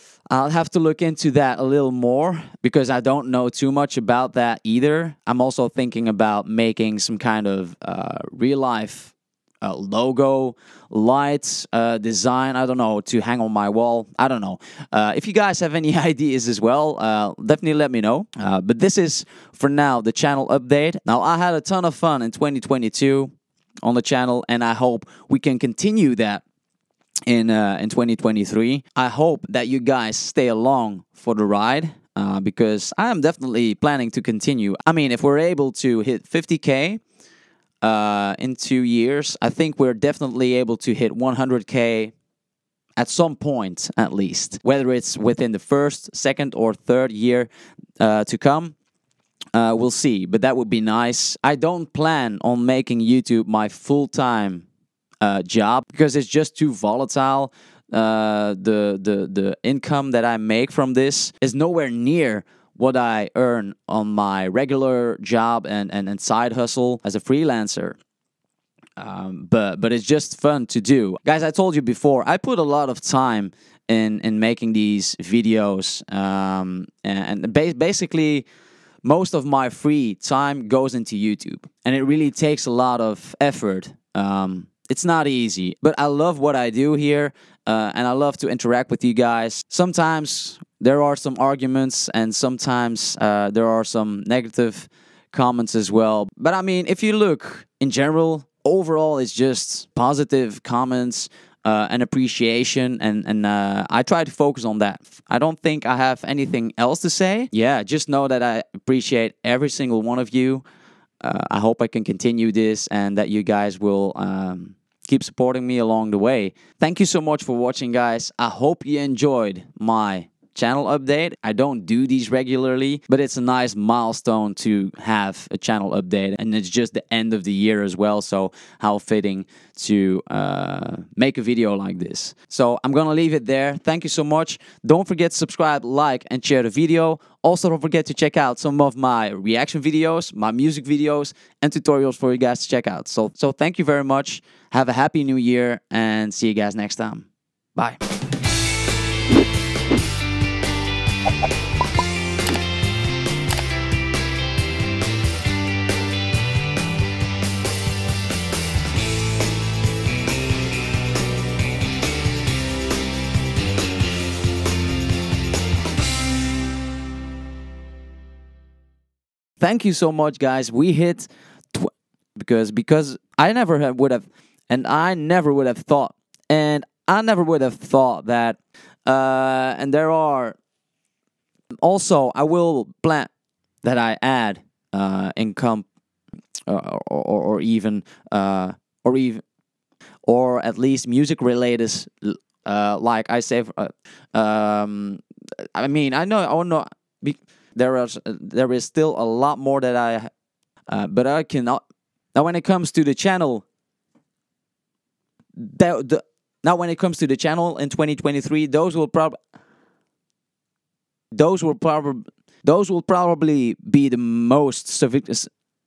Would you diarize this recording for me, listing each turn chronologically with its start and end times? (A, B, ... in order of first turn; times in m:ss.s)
0:00.3-0:26.4 A
0:27.3-0:37.0 A
0:37.8-0:42.1 A
0:43.0-0:48.7 A
0:49.5-0:54.6 A
0:55.2-1:08.0 A
1:09.0-1:18.4 A
1:19.0-1:50.6 A
1:51.2-2:28.0 A
2:49.6-3:00.6 A
3:01.8-3:03.3 A
3:03.8-3:05.8 A
3:06.7-3:09.4 A
3:10.2-3:15.2 A
3:15.7-3:20.3 A
3:20.9-3:21.8 A
3:22.3-3:23.6 A
3:25.6-3:29.4 A
3:31.3-3:35.5 A